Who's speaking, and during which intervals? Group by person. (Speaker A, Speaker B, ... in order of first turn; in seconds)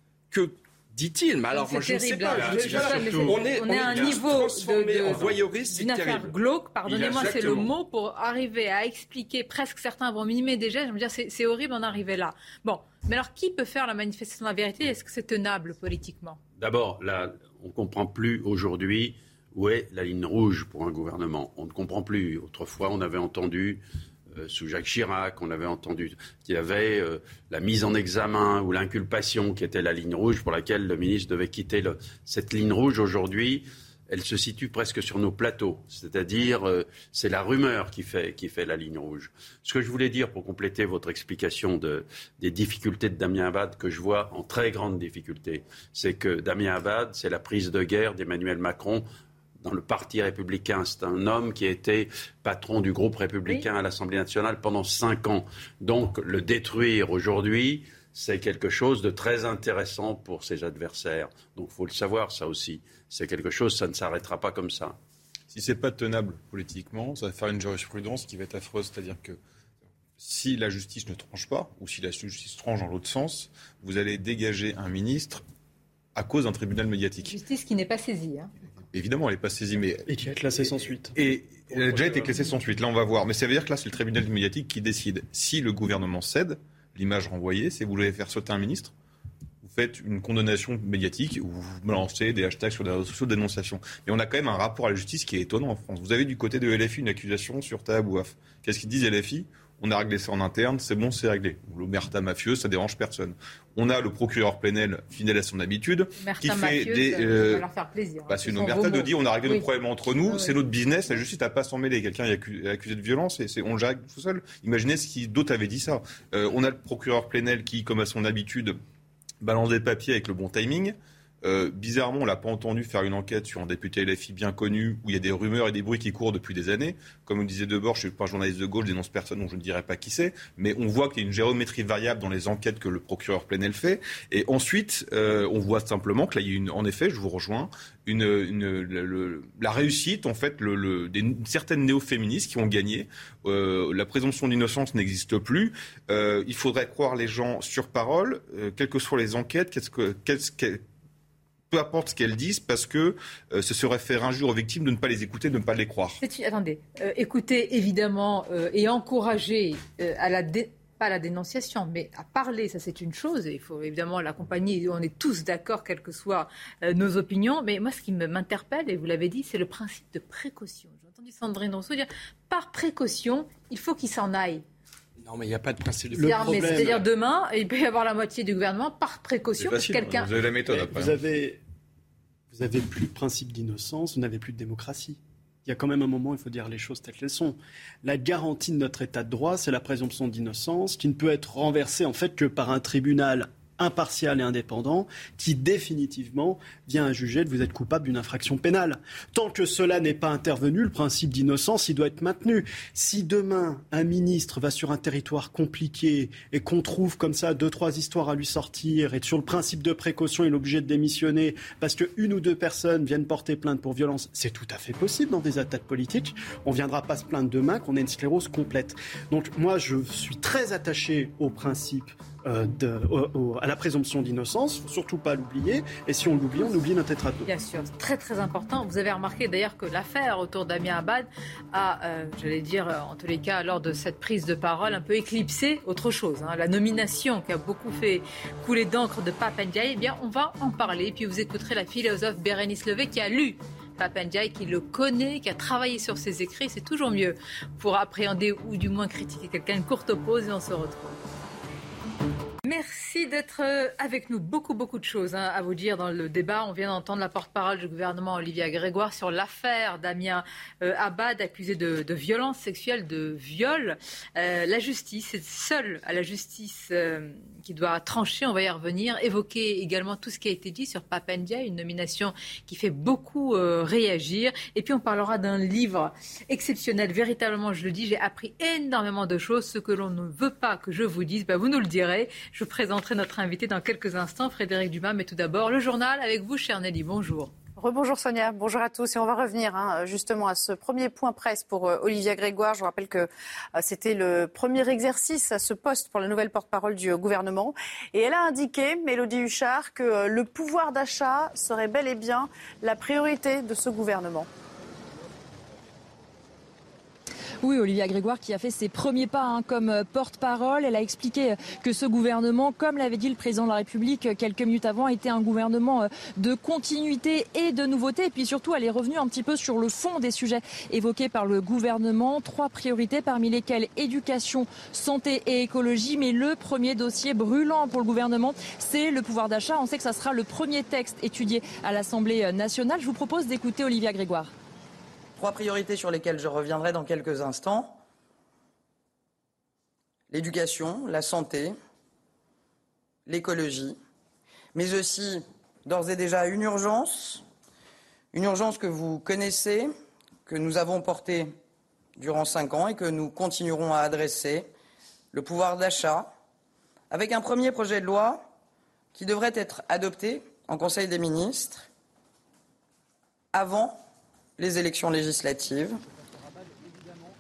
Speaker A: 0.3-7.7, 175.2-177.0
Speaker B: 1.5-16.4, 77.2-78.5, 106.2-109.6, 110.2-110.5, 156.2-174.6, 176.2-180.3, 227.5-251.2, 252.7-287.6
Speaker C: 16.6-49.1, 49.6-65.0
Speaker D: 65.5-69.4, 70.2-75.4, 76.2-77.3, 78.8-80.1, 81.2-88.9, 89.6-107.7, 108.3-118.8, 119.4-150.8, 151.7-156.2, 179.6-181.2
Speaker E: 80.1-81.2, 81.7-82.3, 176.1-177.0, 180.7-181.6, 182.5-227.5
Speaker F: 287.8-304.5
Speaker G: 307.6-334.5
Speaker H: 335.4-338.0, 340.3-341.8, 343.3-344.0, 344.7-347.4, 348.3-349.9, 350.5-351.5, 352.2-354.7, 355.3-356.3, 357.1-358.5, 359.1-361.9, 363.5-364.0, 364.6-366.0